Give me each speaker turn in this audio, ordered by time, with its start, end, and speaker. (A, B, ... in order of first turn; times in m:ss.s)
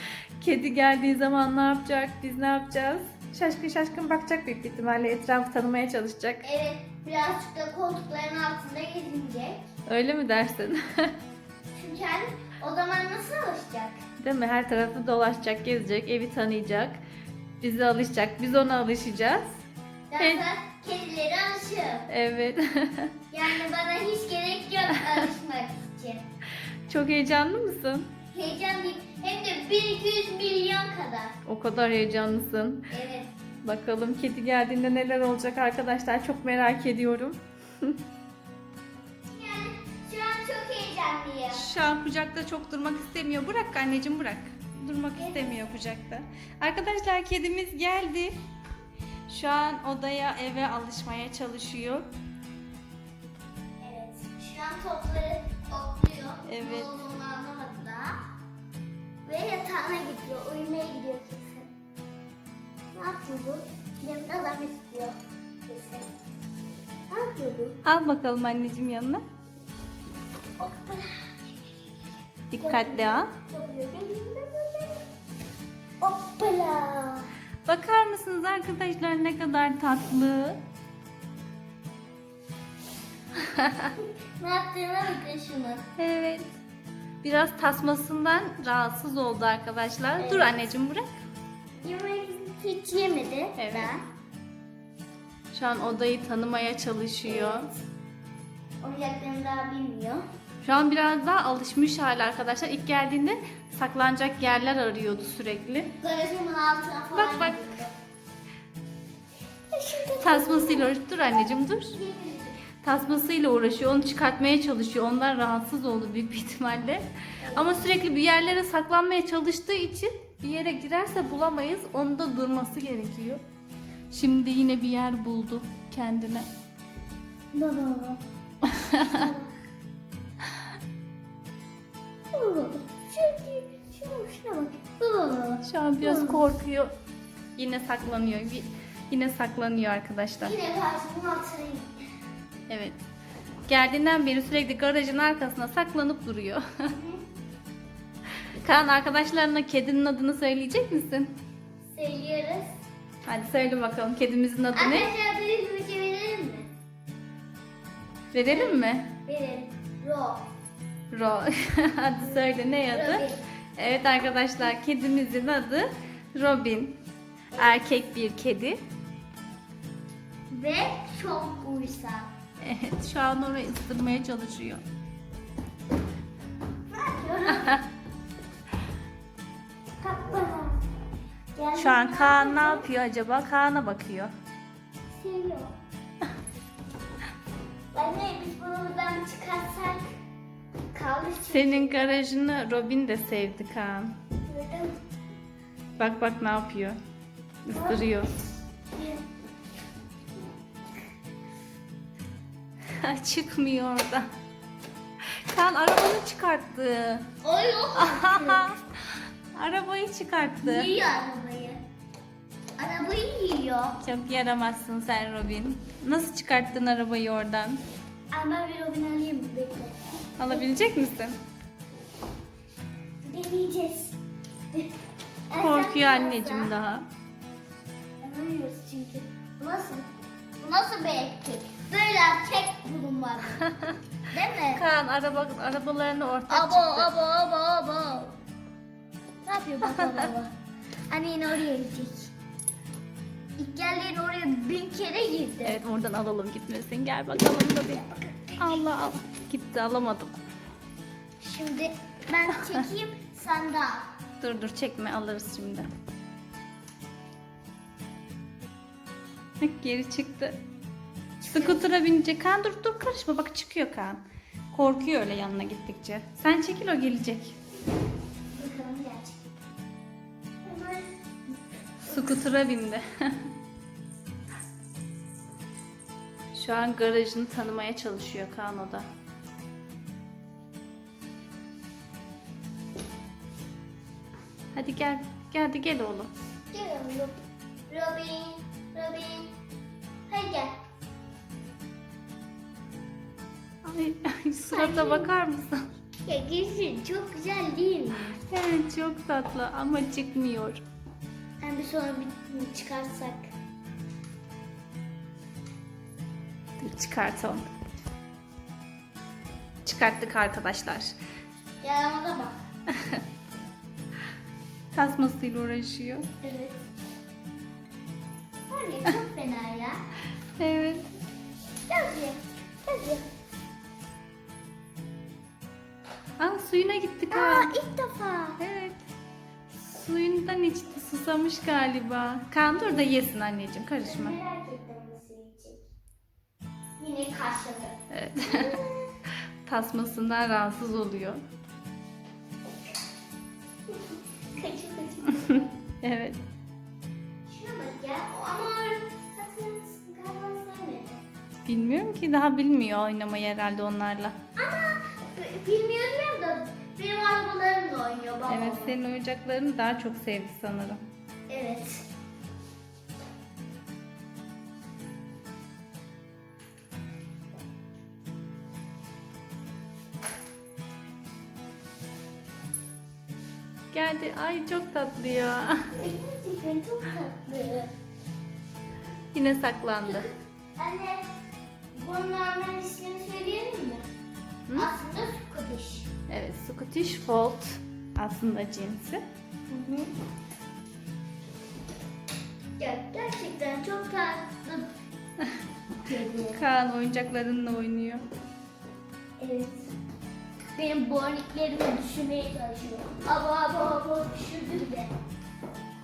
0:00.4-0:06.5 A
0:06.4-0:09.6 B
0:09.9-0:11.1 A
0:11.7-0:14.0 B
0:14.2-0:17.0 A
0:17.6-0:19.6 A
0:20.1-0:22.1 B
0:20.2-0:20.4 A
0:22.1-0:23.1 A
0:23.3-0:26.3 B
0:26.9-0:28.1 A
0:28.3-0:31.4 B
0:31.5-0:32.9 A
0:32.9-0:33.3 B
0:33.6-0:38.0 A
0:39.3-0:41.6 B
0:41.5-0:48.4 A
0:45.2-0:45.7 B
0:49.3-0:52.1 A
0:53.8-0:58.2 B
0:56.4-0:56.9 A
0:59.3-1:01.7 B
1:02.9-1:06.1 B
1:07.1-1:07.8 B
1:07.8-1:09.2 A
1:10.6-1:11.6 B
1:12.5-1:13.3 A
1:12.6-1:15.0 B
1:16.0-1:17.3 B
1:17.6-1:20.6 A
1:23.4-1:23.9 A
1:24.0-1:25.8 B
1:26.0-1:26.5 A
1:27.2-1:31.2 A
1:30.2-1:30.7 B
1:31.8-1:34.0 B
1:33.6-1:33.9 A
1:35.5-1:37.7 A
1:37.3-1:37.8 B
1:38.8-1:40.2 B
1:40.6-1:45.9 A
1:46.0-1:47.9 B
1:47.1-1:47.6 A
1:49.7-1:51.0 B
1:50.2-1:52.0 A
1:51.8-1:52.6 B
1:52.8-2:03.4 A
1:57.4-1:57.9 B
2:04.1-2:06.5 A
2:07.5-2:08.2 B
2:08.6-2:09.1 A
2:08.9-2:09.5 B
2:12.3-2:16.4 B
2:15.6-2:16.9 A
2:17.6-2:20.6 A
2:20.4-2:22.0 B
2:22.7-2:23.0 A
2:23.7-2:26.9 A
2:26.9-2:27.2 B
2:28.6-2:31.3 A
2:31.8-2:32.7 B
2:33.3-2:35.1 A
2:34.7-2:36.7 B
2:38.3-2:39.1 A
2:38.5-2:40.5 B
2:41.1-2:43.2 A
2:42.3-2:43.4 B
2:43.8-2:47.0 A
2:47.5-2:47.8 B
2:47.6-2:48.8 A
2:50.5-2:52.3 B
2:52.6-2:54.8 A
2:56.9-2:57.8 B
2:57.6-2:57.8 A
3:00.0-3:00.8 B
3:01.6-3:02.9 B
3:01.8-3:04.3 A
3:05.1-3:05.8 B
3:07.9-3:10.1 B
3:10.9-3:12.1 B
3:11.5-3:14.2 A
3:14.5-3:15.0 B
3:16.0-3:17.0 A
3:17.6-3:18.3 A
3:17.7-3:18.2 B
3:18.9-3:19.2 B
3:23.0-3:24.3 A
3:25.5-3:27.3 A
3:27.4-3:28.8 B
3:27.9-3:30.9 A
3:30.6-3:31.8 B
3:32.8-3:34.0 B
3:34.0-3:37.8 A
3:38.3-3:40.6 B
3:40.4-3:41.4 A
3:43.2-3:44.2 B
3:45.5-3:46.7 B
3:45.6-3:47.1 A
3:48.2-3:50.1 B
3:50.6-3:53.7 B
3:54.3-3:54.8 B
3:54.7-3:57.1 A
3:56.5-3:58.4 B
3:59.5-4:00.5 B
4:01.1-4:02.3 B
4:03.6-4:05.8 B
4:05.6-4:08.0 A
4:07.9-4:08.8 B
4:08.6-4:10.4 A
4:11.4-4:14.1 B
4:14.4-4:15.9 A
4:19.6-4:20.6 A
4:21.4-4:21.8 B
4:21.5-4:24.2 A
4:24.7-4:27.6 A
4:28.5-4:29.4 B
4:30.6-4:31.6 B
4:32.1-4:32.4 B
4:32.1-4:33.4 A
4:36.5-4:39.1 A
4:44.7-4:46.3 A
4:46.7-4:49.5 B
4:50.3-4:50.8 B
4:53.8-4:55.8 A
4:54.7-4:55.3 B
4:56.3-4:58.4 B
4:58.5-5:00.8 A
5:01.6-5:03.5 B
5:06.8-5:07.7 A
5:09.8-5:11.1 A
5:11.8-5:12.6 B
5:12.9-5:13.2 A
5:14.9-5:16.3 A
5:16.4-5:16.8 B
5:18.7-5:20.0 B
5:20.6-5:21.1 A
5:21.9-5:23.2 B
5:26.4-5:27.7 A
5:27.3-5:28.6 B
5:28.6-5:29.0 A
5:29.9-5:34.4 A
5:32.7-5:33.1 B
5:34.0-5:35.8 B
5:37.0-5:39.1 B
5:38.1-5:38.8 A
5:39.7-5:41.4 A
5:43.9-5:45.7 B
5:46.0-5:46.4 A
5:47.5-5:51.2 B
5:51.6-5:54.4 A
5:54.6-5:59.0 B
5:58.5-6:01.0 A
6:01.5-6:02.1 B
6:13.9-6:15.9 A
6:15.9-6:17.9 B
6:19.3-6:20.3 A
6:20.0-6:21.4 B
6:21.9-6:24.0 B
6:24.8-6:26.1 B
6:26.3-6:29.2 A
6:29.7-6:30.1 B
6:32.8-6:34.9 B
6:36.0-6:36.6 B
6:36.5-6:38.2 A
6:39.4-6:39.9 B
6:40.8-6:45.2 B